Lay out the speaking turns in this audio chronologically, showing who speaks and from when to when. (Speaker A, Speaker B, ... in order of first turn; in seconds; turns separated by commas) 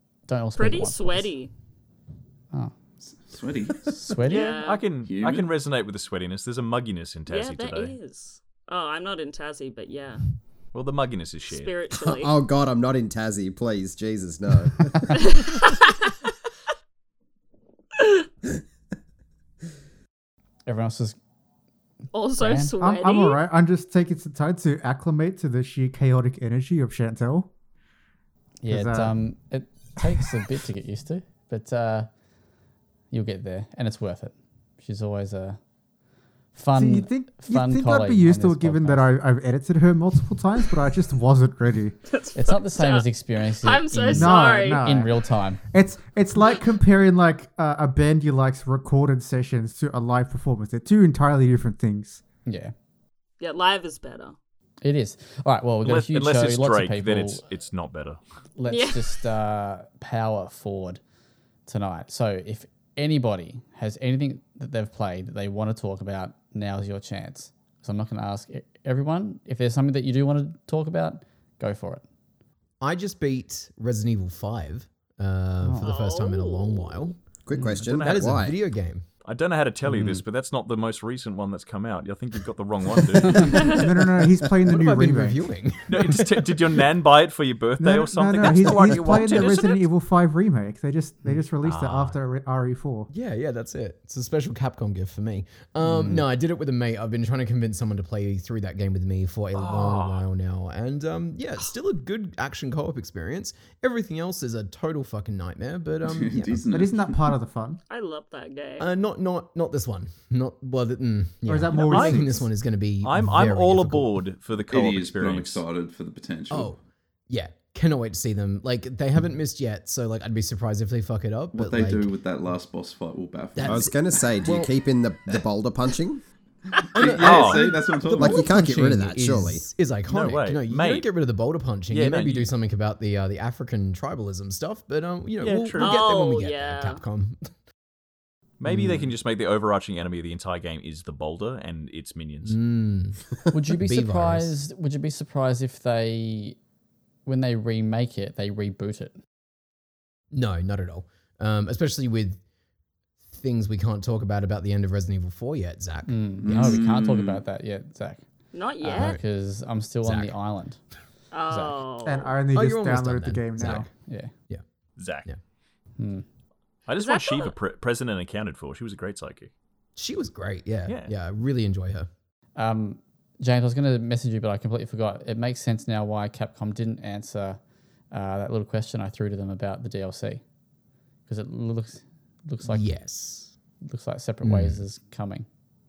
Speaker A: 0.3-1.3, Speaker B: 0.6-1.5, Speaker C: 3.0-4.2, Speaker A: 3.9-4.6, Speaker B: 4.3-4.8, Speaker D: 4.3-8.0, Speaker C: 4.9-5.5, Speaker B: 7.3-10.2, Speaker D: 10.7-11.7, Speaker B: 11.5-12.3, Speaker E: 11.9-15.2, Speaker B: 15.2-16.1, Speaker B: 18.0-18.2, Speaker A: 20.7-21.2, Speaker B: 22.1-23.4, Speaker A: 22.4-22.7, Speaker F: 22.8-27.5, Speaker A: 28.6-32.1, Speaker F: 28.7-29.2, Speaker A: 33.1-35.6, Speaker A: 36.5-39.1, Speaker F: 36.7-42.0, Speaker B: 42.1-44.9, Speaker A: 42.4-45.6, Speaker F: 44.1-52.2, Speaker A: 52.5-52.7, Speaker B: 53.4-54.4, Speaker A: 54.8-57.4, Speaker D: 55.8-58.2, Speaker A: 58.6-61.0, Speaker B: 58.7-59.2, Speaker A: 61.7-72.0, Speaker G: 72.8-77.2, Speaker A: 75.6-75.9, Speaker B: 75.8-77.1, Speaker E: 77.5-78.6, Speaker A: 77.5-77.9, Speaker D: 77.8-78.5, Speaker G: 77.9-79.1, Speaker D: 79.2-83.6, Speaker A: 79.9-80.2, Speaker G: 83.3-83.7, Speaker F: 83.4-85.5, Speaker G: 84.7-86.7, Speaker D: 85.9-89.8, Speaker F: 87.8-93.1, Speaker G: 88.9-89.4, Speaker D: 91.6-92.2, Speaker G: 93.1-106.7, Speaker D: 99.5-100.2, Speaker C: 106.0-107.3, Speaker F: 106.7-107.8, Speaker B: 107.9-108.9, Speaker G: 108.8-114.1, Speaker F: 111.5-112.5, Speaker D: 111.8-112.2, Speaker D: 113.0-115.6, Speaker C: 114.7-116.7, Speaker G: 116.5-122.2, Speaker C: 121.5-123.9, Speaker G: 123.6-124.7, Speaker E: 123.7-126.2, Speaker C: 126.9-128.5, Speaker G: 127.0-137.5, Speaker D: 127.2-127.7, Speaker E: 128.1-129.7, Speaker D: 130.1-131.1, Speaker D: 131.9-132.5, Speaker D: 135.4-136.0, Speaker B: 135.8-137.0, Speaker D: 138.6-142.6, Speaker G: 138.7-139.1, Speaker G: 142.4-144.6, Speaker A: 143.5-146.6, Speaker A: 147.2-149.2, Speaker G: 150.3-152.4, Speaker G: 153.3-156.8, Speaker A: 156.1-158.3, Speaker C: 156.4-157.4, Speaker B: 158.5-159.2, Speaker A: 158.8-160.8, Speaker G: 158.9-159.2, Speaker G: 160.0-160.4, Speaker B: 161.3-162.4, Speaker A: 161.5-161.8, Speaker F: 162.0-163.9, Speaker G: 162.5-163.9, Speaker A: 163.9-164.3, Speaker D: 165.0-165.3, Speaker A: 166.0-166.2, Speaker D: 166.9-169.5, Speaker B: 167.0-167.5, Speaker G: 170.0-172.1, Speaker D: 170.9-171.1, Speaker A: 172.6-177.6, Speaker A: 178.1-180.4, Speaker A: 181.3-182.9, Speaker G: 182.6-183.5, Speaker A: 183.8-185.5, Speaker G: 184.4-184.8